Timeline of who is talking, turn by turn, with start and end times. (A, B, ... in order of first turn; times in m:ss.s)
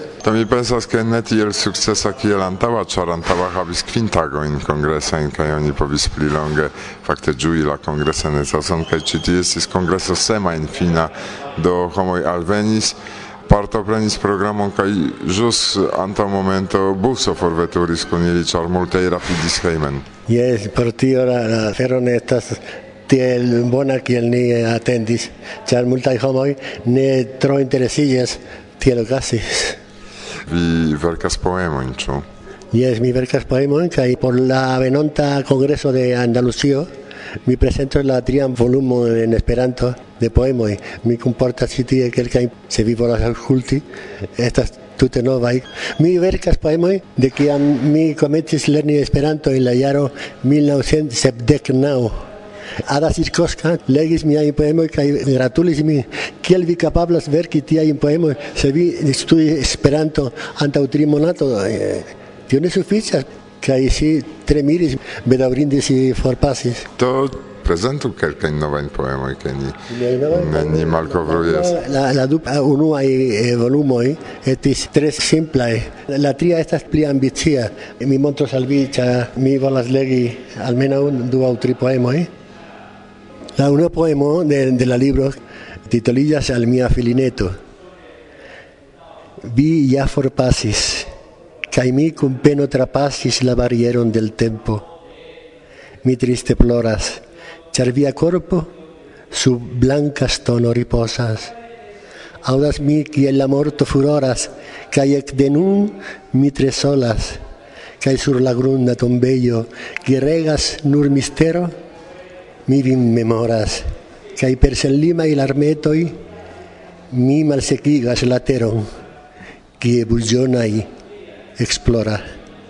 0:00.2-0:20.0 A
0:20.3-0:29.8 B
0:30.5-0:32.2 A
0:32.7-0:36.9 B
0:37.4-0:52.2 B
0:52.8-1:06.9 B
1:07.0-1:09.8 A
1:09.9-1:22.3 B
1:10.3-1:11.7 A
1:23.6-1:27.6 B
1:29.4-1:31.1 B
1:31.7-1:34.9 B
1:36.0-1:38.7 B
1:39.3-1:41.5 B
1:42.4-1:47.4 B
1:48.0-1:51.7 B
1:52.6-1:56.2 B
1:57.1-1:58.9 B
1:59.8-2:00.9 B
2:01.6-2:02.2 B